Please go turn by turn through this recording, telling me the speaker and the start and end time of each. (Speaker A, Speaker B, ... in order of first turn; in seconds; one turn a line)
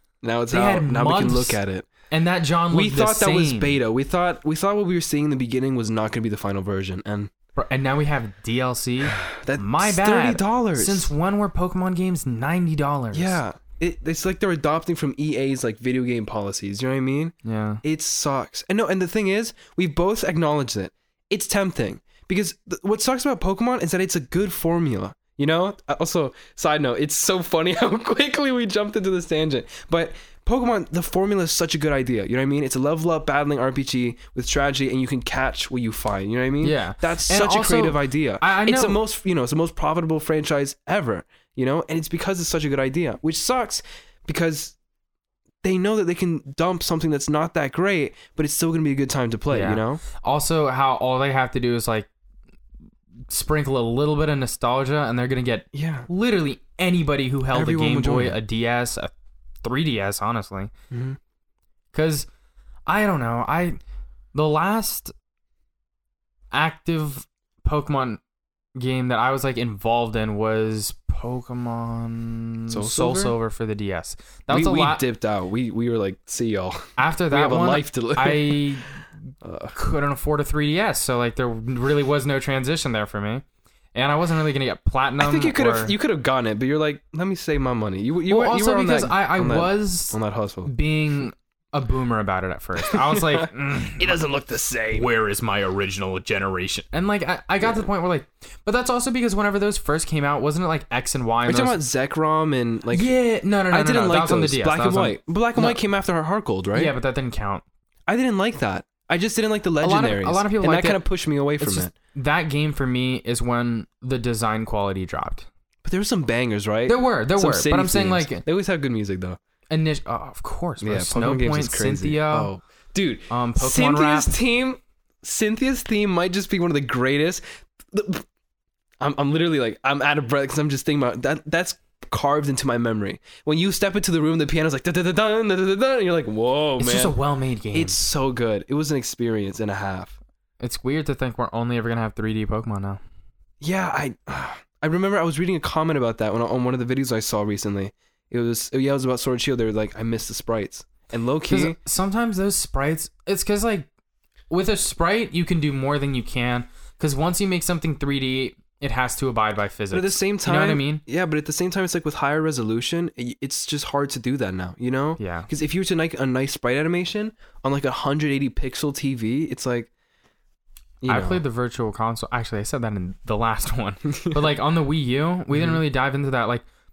Speaker A: 0.2-1.9
Speaker B: 0.5-1.6
Speaker B: 2.1-3.8
Speaker A: 2.7-7.3
Speaker B: 7.6-13.4
Speaker A: 9.2-11.1
Speaker A: 13.1-44.8
Speaker B: 17.4-17.8
Speaker B: 36.6-39.0
Speaker A: 45.6-50.0
Speaker B: 49.5-52.1
Speaker B: 53.3-59.1
Speaker A: 55.7-56.1
Speaker A: 57.5-58.4
Speaker B: 59.6-60.7
Speaker A: 60.9-61.2
Speaker B: 61.9-62.3
Speaker B: 62.9-63.8
Speaker B: 64.3-65.1
Speaker B: 66.5-68.2
Speaker B: 68.8-75.0
Speaker A: 72.7-73.4
Speaker A: 74.5-78.6
Speaker B: 77.0-79.0
Speaker A: 79.4-79.7
Speaker B: 79.8-83.4
Speaker B: 84.0-86.0
Speaker A: 85.2-90.7
Speaker B: 88.3-94.2
Speaker A: 92.9-95.1
Speaker B: 94.9-101.8
Speaker A: 101.5-103.1
Speaker B: 102.9-105.8
Speaker A: 103.7-106.9
Speaker B: 106.7-107.6
Speaker A: 108.1-111.9
Speaker B: 109.8-111.0
Speaker B: 111.6-115.5
Speaker A: 115.8-119.4
Speaker B: 116.9-118.4
Speaker B: 119.7-122.5
Speaker A: 120.8-128.3
Speaker B: 123.3-124.3
Speaker A: 129.0-137.1
Speaker B: 136.8-138.0
Speaker A: 137.7-140.2
Speaker B: 140.6-143.0
Speaker A: 143.6-151.8
Speaker B: 151.5-153.9
Speaker B: 154.5-161.0
Speaker A: 159.9-169.9
Speaker B: 165.2-165.5
Speaker A: 171.0-171.4
Speaker B: 171.1-176.6
Speaker A: 175.5-175.8